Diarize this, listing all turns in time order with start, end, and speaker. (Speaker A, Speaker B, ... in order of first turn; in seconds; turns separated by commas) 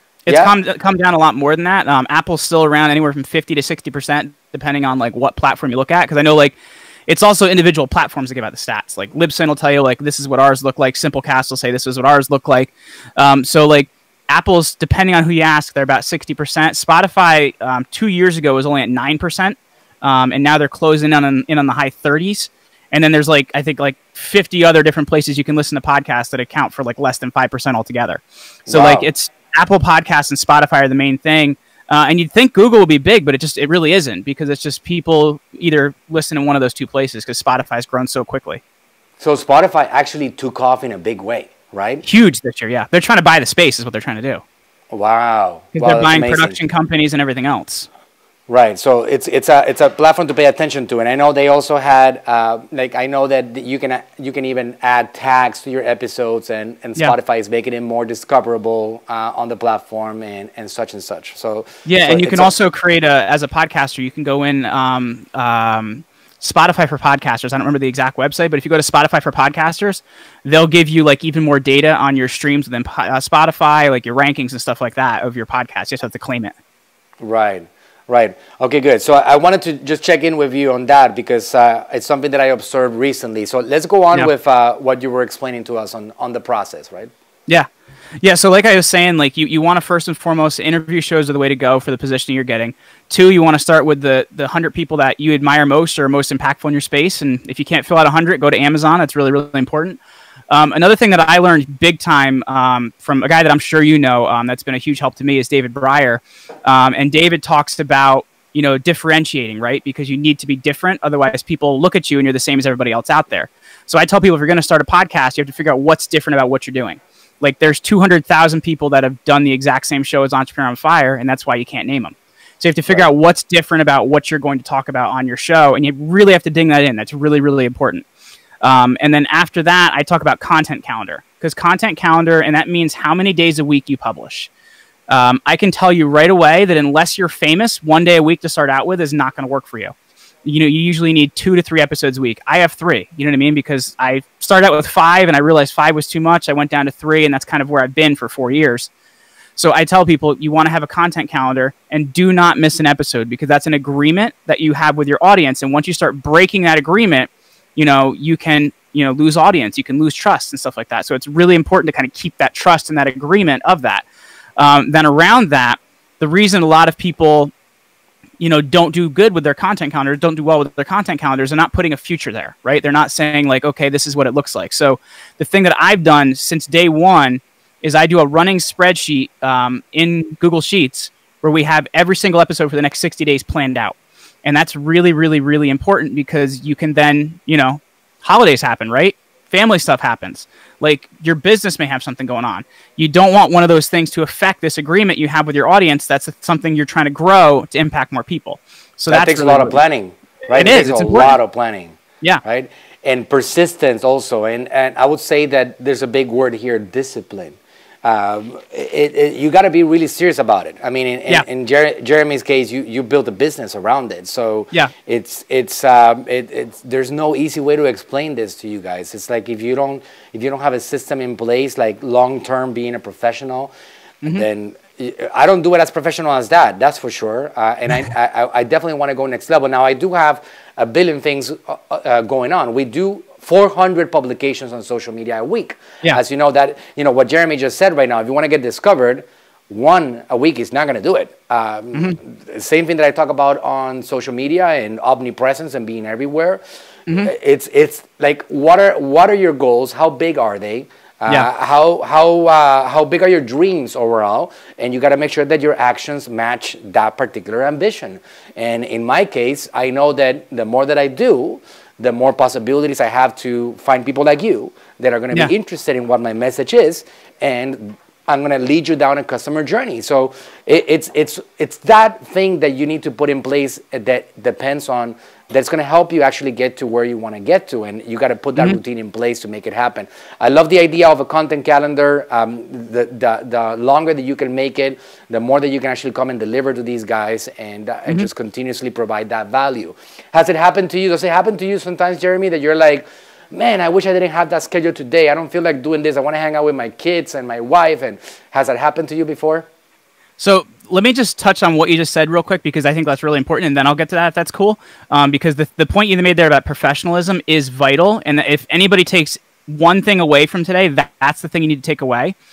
Speaker A: 0.3-0.5, Speaker B: 0.3-6.5, Speaker B: 7.1-38.6, Speaker A: 28.7-29.1, Speaker A: 39.2-42.0, Speaker B: 42.1-44.4, Speaker A: 44.9-46.6, Speaker B: 45.7-47.9, Speaker A: 48.5-62.5, Speaker B: 61.9-76.6, Speaker A: 77.2-87.1, Speaker B: 88.2-100.0, Speaker B: 100.5-128.1, Speaker A: 122.9-123.2, Speaker B: 128.6-134.5, Speaker B: 135.1-148.9, Speaker B: 149.6-164.0, Speaker B: 164.6-167.5, Speaker B: 168.4-199.8, Speaker A: 199.1-223.7, Speaker B: 200.5-201.4, Speaker A: 224.2-299.7, Speaker B: 300.4-312.4